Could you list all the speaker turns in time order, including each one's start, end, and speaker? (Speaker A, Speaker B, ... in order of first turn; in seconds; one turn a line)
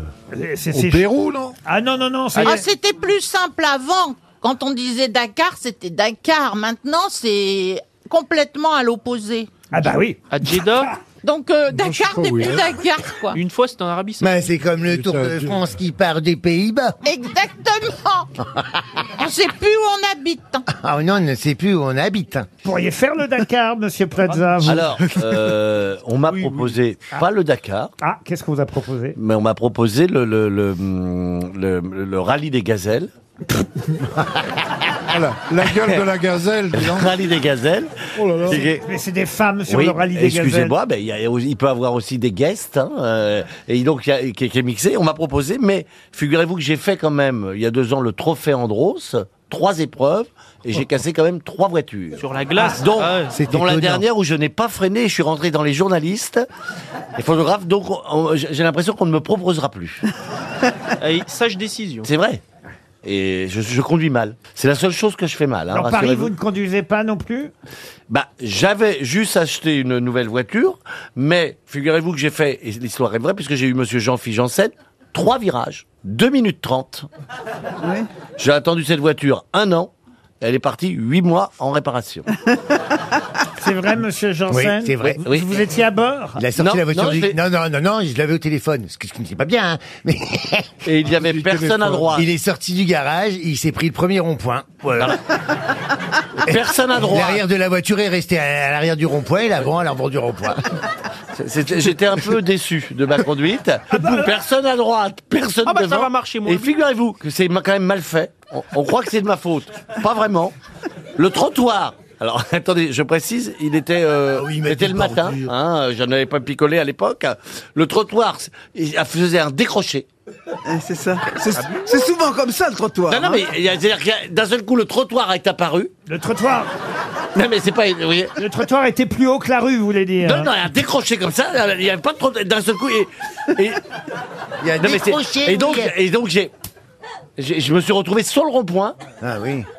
Speaker A: 0.3-1.1
Speaker B: 0.7-1.6
Speaker A: 1.6-2.7
Speaker C: 2.4-9.5
Speaker A: 9.7-10.9
Speaker D: 10.3-10.9
Speaker C: 11.2-13.4
Speaker B: 11.7-12.7
Speaker D: 13.3-14.3
Speaker E: 14.2-17.0
Speaker B: 14.8-15.7
Speaker C: 17.1-18.4
Speaker C: 19.1-20.7
Speaker E: 20.7-22.5
Speaker A: 22.6-24.9
Speaker F: 24.6-27.9
Speaker A: 28.0-29.2
Speaker F: 29.2-33.1
Speaker B: 35.0-37.1
Speaker F: 36.7-38.9
Speaker B: 38.2-38.7
Speaker A: 38.5-40.8
Speaker F: 39.7-56.5
Speaker D: 52.2-53.4
Speaker E: 53.3-54.1
Speaker F: 57.2-60.1
Speaker D: 61.0-62.1
Speaker F: 62.0-62.4
Speaker F: 63.0-66.3
Speaker A: 65.7-67.5
Speaker F: 68.1-77.1
Speaker G: 77.8-78.1
Speaker F: 78.4-82.3
Speaker A: 83.6-86.4
Speaker E: 84.5-85.2
Speaker F: 85.0-85.6
Speaker E: 86.4-90.7
Speaker F: 86.6-87.4
Speaker F: 90.8-92.3
Speaker B: 91.1-92.2
Speaker E: 92.1-95.2
Speaker F: 96.4-97.4
Speaker E: 96.5-100.6
Speaker F: 101.3-110.5
Speaker D: 105.6-106.8
Speaker F: 111.2-120.1
Speaker E: 114.3-115.5
Speaker G: 120.7-123.4
Speaker F: 123.1-125.9
Speaker A: 126.1-126.7
Speaker F: 127.3-128.4
Speaker A: 128.4-130.5
Speaker F: 130.2-133.8
Speaker E: 134.6-135.9
Speaker F: 134.8-136.5
Speaker F: 137.4-139.0
Speaker E: 139.2-139.7